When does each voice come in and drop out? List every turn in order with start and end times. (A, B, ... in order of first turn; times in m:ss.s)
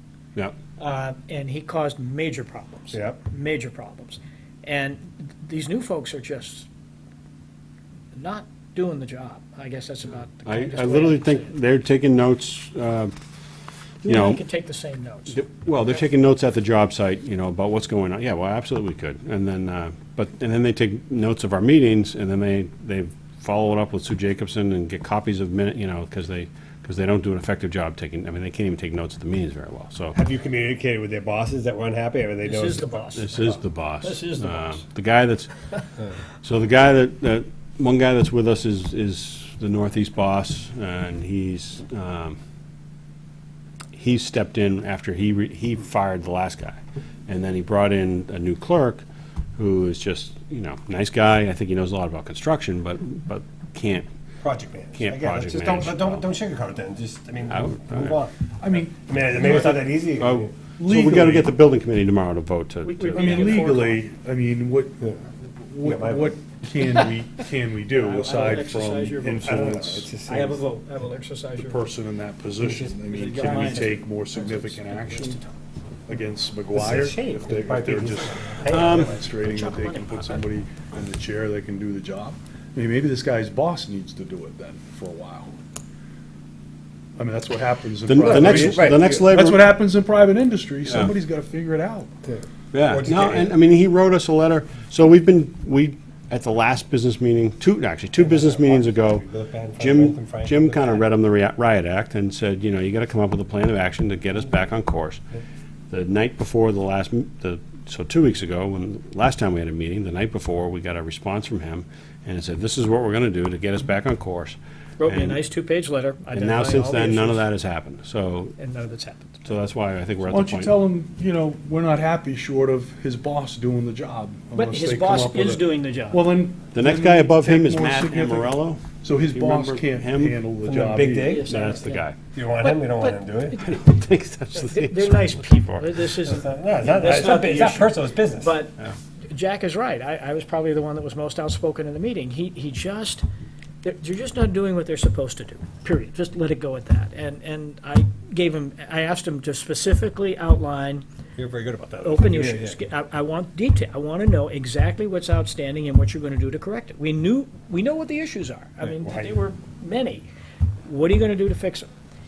0:00.8-0:06.7 A
0:02.9-0:03.2 B
0:08.1-0:11.5 A
0:10.4-0:13.1 C
0:14.0-0:14.4 C
0:14.0-0:15.4 A
0:15.3-0:30.2 C
0:30.2-0:33.0 B
0:32.4-0:34.8 A
0:33.1-0:35.5 C
0:36.4-0:42.4 C
0:43.9-0:49.0 C
0:49.6-0:54.0 C
0:54.4-0:58.3 B
0:54.9-0:56.3 C
0:57.5-0:58.2 C
0:58.6-1:00.0 D
0:59.0-1:00.6 B
0:59.4-1:03.7 C
1:00.8-1:01.5 D
1:02.8-1:04.0 A
1:03.1-1:10.1 D
1:05.8-1:06.3 B
1:08.0-1:11.9 A
1:09.4-1:10.9 B
1:11.6-1:15.4 D
1:12.6-1:13.9 B
1:13.1-1:15.5 A
1:16.1-1:25.5 D
1:16.7-1:19.2 B
1:18.7-1:19.1 C
1:19.4-1:20.4 A
1:27.2-1:32.1 D
1:28.1-1:29.6 C
1:28.2-1:29.2 B
1:32.7-1:45.2 C
1:32.9-1:33.5 B
1:38.1-1:41.0 B
1:45.9-1:55.4 C
1:55.0-1:57.4 A
1:56.3-1:58.5 C
1:58.6-1:59.4 A
1:59.4-2:00.8 C
2:00.3-2:11.4 D
2:04.5-2:06.2 A
2:06.7-2:10.4 C
2:10.6-2:11.6 B
2:11.3-2:12.1 A
2:11.4-2:12.2 C
2:12.3-2:13.6 B
2:12.6-2:13.8 A
2:13.5-2:15.9 C
2:14.5-2:23.2 A
2:16.2-2:18.6 B
2:23.8-2:31.0 A
2:31.4-2:32.8 B
2:32.0-2:40.3 A
2:38.8-2:39.3 B
2:40.8-2:41.8 A